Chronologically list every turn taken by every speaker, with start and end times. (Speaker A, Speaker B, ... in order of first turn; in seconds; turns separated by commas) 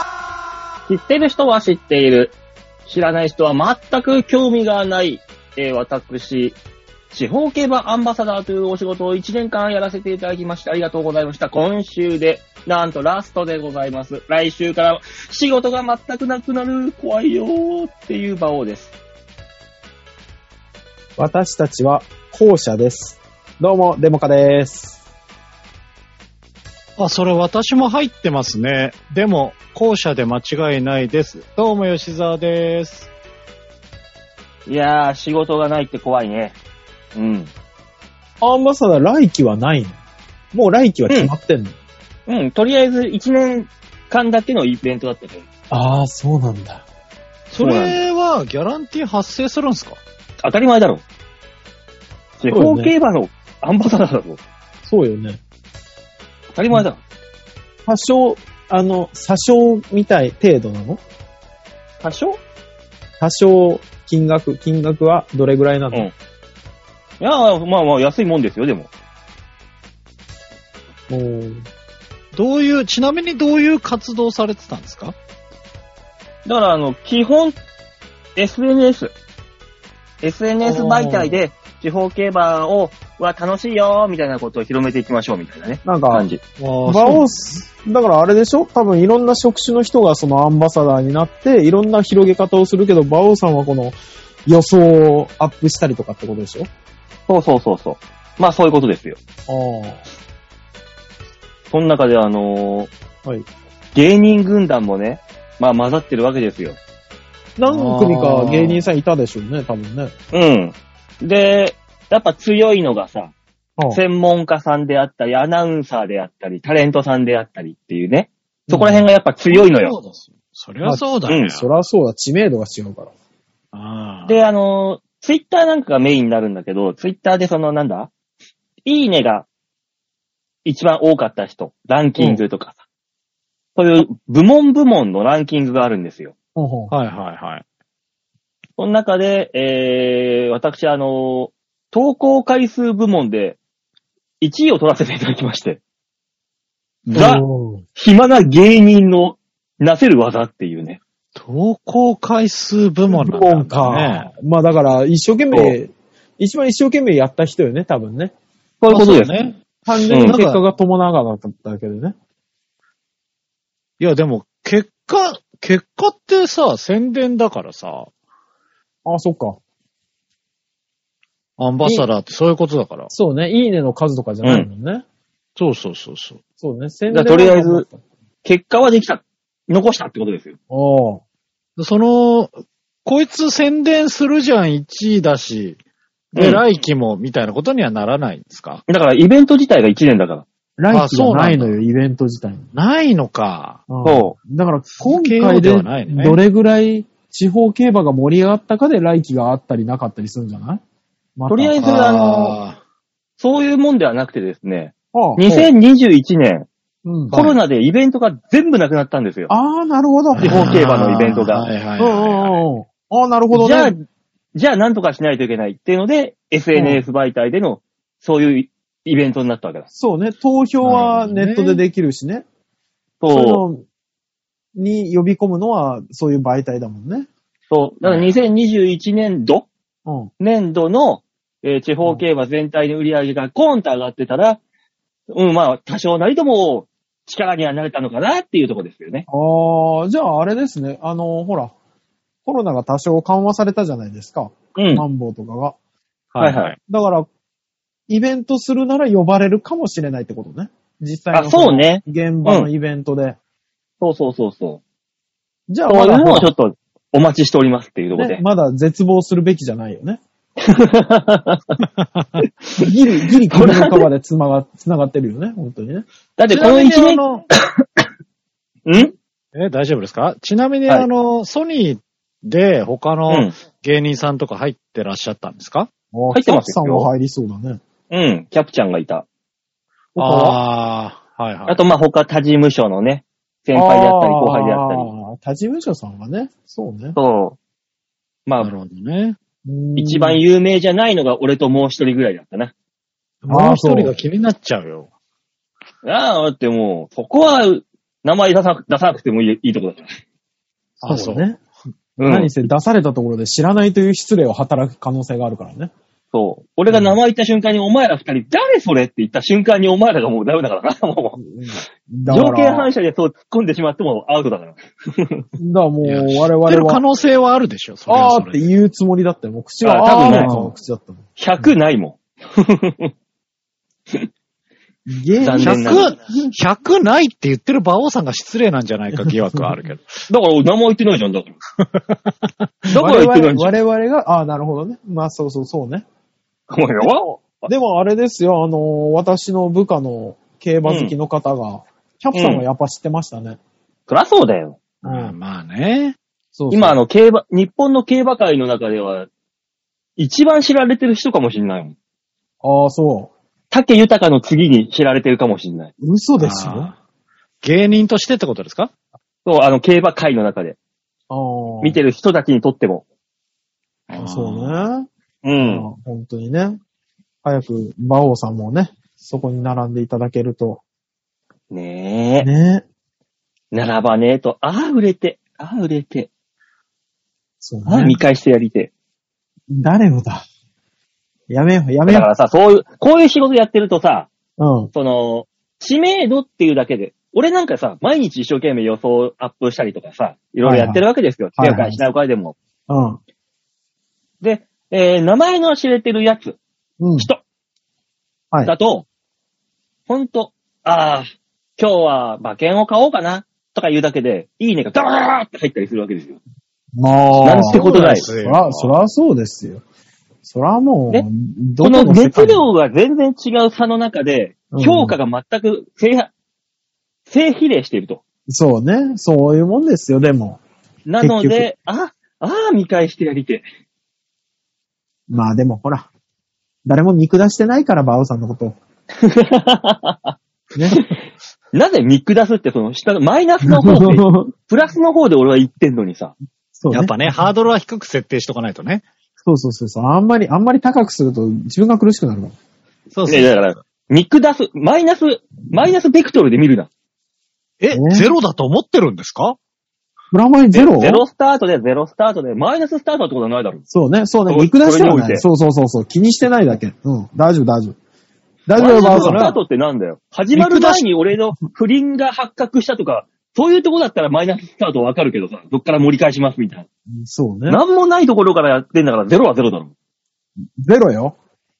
Speaker A: 0.9-2.3, Speaker A: 2.9-6.6, Speaker A: 7.1-18.9, Speaker B: 21.2-25.0, Speaker C: 27.0-33.1, Speaker A: 34.6-36.5, Speaker A: 37.1-37.5, Speaker B: 38.4-40.0, Speaker B: 40.5-41.7, Speaker A: 42.3-45.5, Speaker B: 45.7-46.8, Speaker C: 47.5-50.0, Speaker A: 47.5-48.0, Speaker A: 50.4-51.0, Speaker A: 52.4-54.4, Speaker B: 52.5-52.9, Speaker B: 54.8-55.4, Speaker A: 56.5-57.0, Speaker B: 57.9-61.0, Speaker A: 62.0-62.4, Speaker B: 63.2-66.1, Speaker A: 67.2-68.9, Speaker B: 71.1-71.6, Speaker C: 72.3-75.1, Speaker A: 76.5-77.6, Speaker A: 78.3-79.1, Speaker A: 80.2-86.4, Speaker B: 80.6-81.4, Speaker B: 85.8-86.3, Speaker C: 86.6-87.3, Speaker B: 86.8-96.7, Speaker A: 97.3-99.2, Speaker B: 99.5-100.0, Speaker A: 101.7-102.9, Speaker A: 103.9-106.8, Speaker B: 107.6-110.1, Speaker C: 107.7-108.9, Speaker A: 110.3-113.3, Speaker A: 113.9-120.0, Speaker B: 118.7-119.0, Speaker C: 119.5-121.7, Speaker B: 120.8-123.1, Speaker A: 121.3-121.5, Speaker C: 123.7-124.4, Speaker A: 124.2-128.1, Speaker A: 128.8-129.5, Speaker A: 130.6-132.8, Speaker B: 132.2-132.4, Speaker A: 133.8-136.3, Speaker B: 136.6-136.9, Speaker C: 136.9-137.6, Speaker A: 138.8-143.6, Speaker A: 144.4-145.8, Speaker C: 147.1-147.3, Speaker A: 147.1-147.4, Speaker B: 147.1-147.8, Speaker A: 147.9-151.0, Speaker C: 151.3-154.3, Speaker B: 153.1-158.3, Speaker A: 155.5-155.8, Speaker A: 158.8-159.3, Speaker C: 158.9-160.6, Speaker B: 159.8-162.2, Speaker A: 160.1-160.4, Speaker C: 164.0-168.1, Speaker B: 169.0-169.6, Speaker C: 171.6-173.1, Speaker B: 173.1-175.0, Speaker C: 175.6-176.4, Speaker B: 176.6-178.0, Speaker A: 177.1-177.8, Speaker A: 178.4-180.6, Speaker B: 180.7-181.2, Speaker C: 181.8-182.5, Speaker C: 183.0-185.8, Speaker A: 186.3-186.6, Speaker C: 186.3-188.8, Speaker A: 188.9-190.4, Speaker B: 190.8-192.7, Speaker C: 190.9-191.8, Speaker C: 192.7-193.8, Speaker B: 193.9-200.8, Speaker A: 194.0-194.3, Speaker C: 195.0-196.4, Speaker B: 201.3-201.8, Speaker A: 201.5-202.6, Speaker C: 201.8-202.8, Speaker A: 203.4-206.7, Speaker B: 205.1-205.7, Speaker B: 207.0-207.4, Speaker A: 207.3-209.5, Speaker C: 207.3-207.6, Speaker B: 209.5-210.8, Speaker C: 210.3-212.6, Speaker A: 210.4-211.7, Speaker B: 212.0-213.9, Speaker A: 213.5-214.0, Speaker A: 214.5-219.8, Speaker B: 216.7-217.0, Speaker B: 219.9-222.4, Speaker C: 220.8-221.8, Speaker A: 223.2-223.6, Speaker B: 223.3-223.8, Speaker B: 224.7-227.3, Speaker A: 227.7-229.7, Speaker C: 228.0-228.3, Speaker A: 230.4-234.6, Speaker A: 235.3-239.3, Speaker B: 239.3-241.7, Speaker B: 242.4-245.8, Speaker A: 244.8-245.0, Speaker C: 246.3-246.8, Speaker A: 246.4-246.7, Speaker B: 246.8-247.3, Speaker B: 248.1-253.4, Speaker A: 251.3-252.7, Speaker A: 254.0-254.8, Speaker B: 255.7-256.5, Speaker A: 255.9-258.4, Speaker B: 258.1-260.2, Speaker A: 260.6-261.8, Speaker C: 262.0-262.4, Speaker B: 262.8-266.0, Speaker A: 263.5-264.0, Speaker A: 266.4-268.0, Speaker C: 266.5-267.4, Speaker A: 268.9-269.1, Speaker C: 269.5-275.9, Speaker A: 273.3-273.5, Speaker B: 276.1-277.8, Speaker A: 276.3-277.1, Speaker A: 278.1-279.2, Speaker B: 280.2-280.6, Speaker C: 280.2-281.8, Speaker A: 281.7-285.1, Speaker B: 283.7-287.2, Speaker A: 287.1-287.6, Speaker A: 288.4-288.7, Speaker C: 288.6-289.4, Speaker B: 289.6-290.4, Speaker A: 289.9-292.7, Speaker B: 293.4-294.1, Speaker C: 293.5-295.1, Speaker A: 296.0-300.1, Speaker C: 301.0-301.4, Speaker B: 301.0-301.6, Speaker A: 302.2-302.6, Speaker B: 302.2-305.9, Speaker A: 306.3-315.4, Speaker B: 311.4-312.9, Speaker B: 315.6-317.0, Speaker C: 316.0-318.7, Speaker B: 318.1-321.7, Speaker A: 319.8-320.5, Speaker C: 320.3-320.7, Speaker A: 321.4-323.1, Speaker B: 325.1-326.1, Speaker A: 325.4-326.2, Speaker C: 325.6-330.1, Speaker B: 329.2-329.7, Speaker A: 330.3-331.5, Speaker A: 332.9-333.7, Speaker B: 332.9-336.0, Speaker A: 336.7-337.7, Speaker B: 337.0-343.6, Speaker A: 340.8-341.1, Speaker A: 342.3-342.6, Speaker A: 344.1-344.8, Speaker B: 345.0-345.3, Speaker C: 345.0-346.1, Speaker B: 346.6-347.0, Speaker A: 346.7-349.3, Speaker A: 350.2-351.9, Speaker B: 352.6-353.3, Speaker A: 353.7-355.9, Speaker B: 356.0-356.9, Speaker C: 356.4-356.9, Speaker C: 357.6-358.9, Speaker A: 359.4-360.8, Speaker B: 361.3-362.0, Speaker A: 361.8-363.0, Speaker C: 364.1-364.9, Speaker B: 364.1-366.8, Speaker A: 365.4-365.9, Speaker B: 367.4-370.8, Speaker A: 371.7-372.5, Speaker B: 372.4-372.8, Speaker A: 373.7-376.3, Speaker B: 377.6-378.2, Speaker A: 377.9-378.9, Speaker B: 379.7-380.4, Speaker B: 381.5-382.3, Speaker A: 382.1-384.3, Speaker B: 384.6-384.9, Speaker A: 384.9-392.6, Speaker B: 390.6-391.0, Speaker B: 391.6-392.0, Speaker B: 392.9-393.2, Speaker A: 394.4-396.6, Speaker B: 397.0-397.3, Speaker A: 398.6-399.1, Speaker A: 400.1-406.4, Speaker B: 406.9-409.8, Speaker A: 407.4-408.3, Speaker C: 407.7-408.9, Speaker B: 410.4-412.7, Speaker A: 411.8-416.3, Speaker B: 414.7-415.2, Speaker A: 417.3-418.2, Speaker B: 418.5-420.6, Speaker A: 421.1-423.6, Speaker B: 421.2-421.7, Speaker B: 425.3-426.1, Speaker B: 426.8-428.8, Speaker A: 429.2-430.4, Speaker B: 430.7-431.0, Speaker A: 430.9-431.1, Speaker A: 431.7-436.3, Speaker B: 433.6-434.5, Speaker B: 436.8-437.3, Speaker C: 436.9-439.0, Speaker B: 439.4-442.5, Speaker C: 443.1-443.6, Speaker A: 443.3-446.9, Speaker C: 447.8-449.6, Speaker B: 447.9-448.3, Speaker B: 450.3-451.2, Speaker A: 450.7-453.8, Speaker B: 453.9-458.0, Speaker A: 454.5-455.4, Speaker B: 458.7-459.6, Speaker A: 458.8-466.9, Speaker C: 458.9-459.4, Speaker C: 460.5-461.0, Speaker B: 467.1-467.8, Speaker A: 467.7-469.9, Speaker B: 470.8-471.4